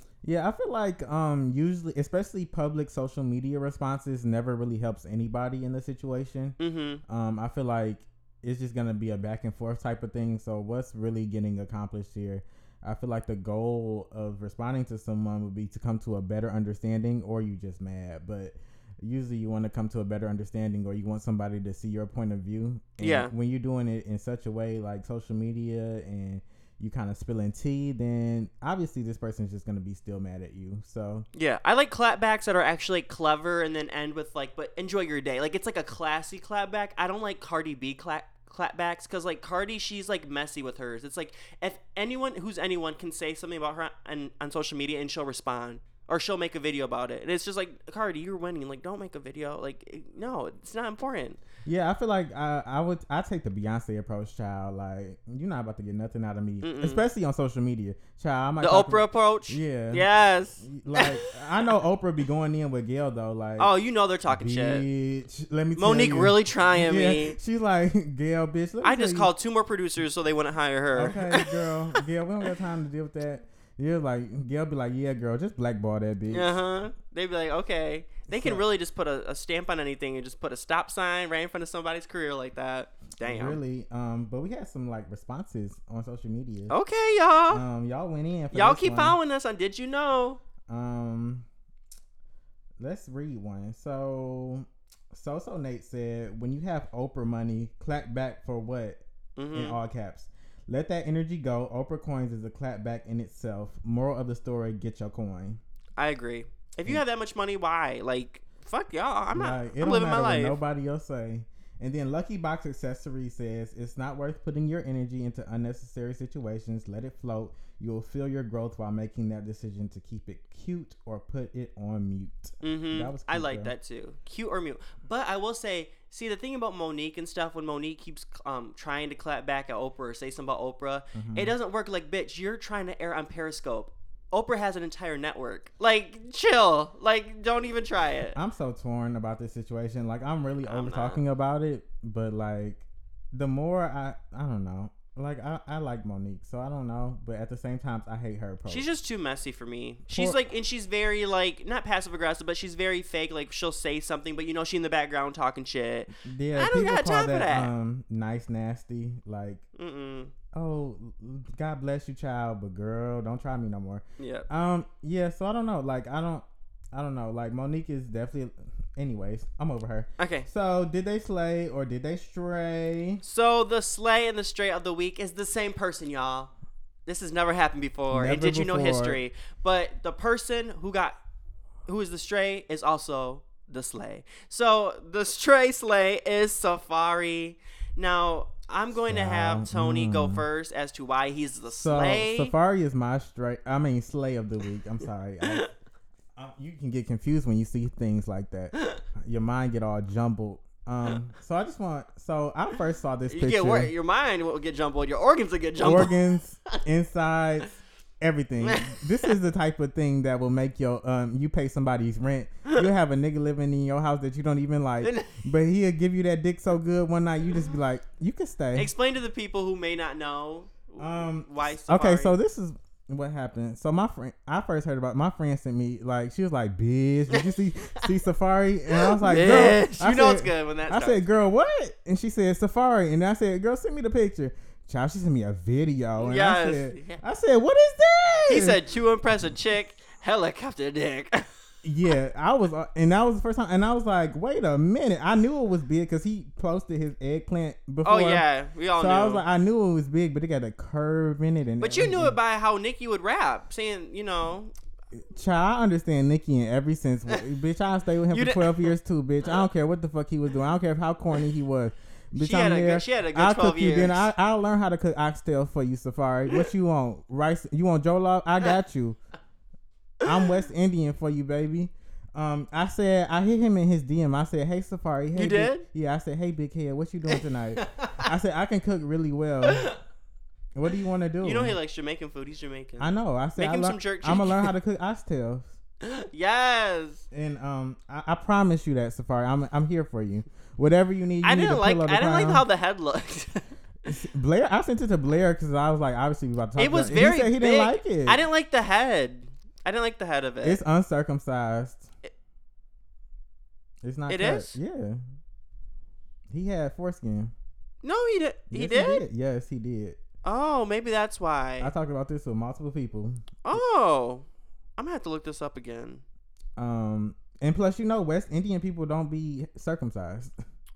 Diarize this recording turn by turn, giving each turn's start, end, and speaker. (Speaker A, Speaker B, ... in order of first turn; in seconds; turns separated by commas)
Speaker A: 0.2-31.3, Speaker B: 6.6-7.0, Speaker B: 23.0-23.3, Speaker B: 31.3-51.4, Speaker A: 51.6-60.1, Speaker B: 56.6-57.0, Speaker B: 58.6-61.7, Speaker A: 60.6-63.7, Speaker B: 63.6-64.9, Speaker A: 64.3-69.3, Speaker B: 65.8-67.4, Speaker B: 68.8-72.1, Speaker A: 70.9-76.6, Speaker B: 76.3-83.6, Speaker A: 78.3-78.6, Speaker A: 83.2-86.7, Speaker B: 86.7-87.6, Speaker A: 87.5-89.2, Speaker B: 88.5-90.4, Speaker A: 90.7-91.5, Speaker A: 92.8-99.0, Speaker B: 99.4-99.8, Speaker A: 99.5-105.6, Speaker B: 106.0-110.6, Speaker A: 109.3-123.7, Speaker B: 122.6-138.4, Speaker A: 131.1-131.5, Speaker A: 138.3-148.9, Speaker B: 140.7-141.2, Speaker B: 148.7-157.7, Speaker A: 150.1-150.5, Speaker A: 156.1-159.6, Speaker B: 159.8-160.3, Speaker A: 160.5-173.2, Speaker B: 164.2-164.5, Speaker B: 170.2-170.5, Speaker B: 173.2-176.5, Speaker B: 177.1-181.2, Speaker A: 178.1-179.2, Speaker B: 181.9-192.5, Speaker A: 189.1-190.5, Speaker A: 191.7-195.7, Speaker A: 196.4-203.9, Speaker B: 203.3-206.8, Speaker A: 205.8-218.9, Speaker B: 208.6-209.3, Speaker B: 215.0-215.5, Speaker B: 218.7-222.3, Speaker A: 221.0-238.8, Speaker B: 228.9-231.2, Speaker B: 236.2-237.2, Speaker B: 238.5-241.5, Speaker A: 241.8-252.4, Speaker B: 248.0-249.4, Speaker B: 251.8-254.7, Speaker A: 255.1-269.2, Speaker B: 258.3-258.9, Speaker B: 262.4-264.3, Speaker A: 270.2-279.9, Speaker B: 275.3-275.8, Speaker B: 277.3-278.3, Speaker B: 279.6-280.0, Speaker A: 280.8-281.8, Speaker B: 281.4-284.7, Speaker A: 283.0-285.8, Speaker B: 286.0-287.2, Speaker A: 287.3-292.6, Speaker B: 291.4-293.6, Speaker A: 294.1-298.4, Speaker B: 296.8-300.8, Speaker A: 300.6-302.1, Speaker A: 304.0-305.2, Speaker B: 304.3-304.8, Speaker A: 306.5-307.5, Speaker B: 308.0-309.2, Speaker A: 308.7-310.2, Speaker B: 310.4-311.9, Speaker A: 311.8-313.8, Speaker B: 313.6-314.5, Speaker B: 315.0-316.2, Speaker A: 316.8-320.6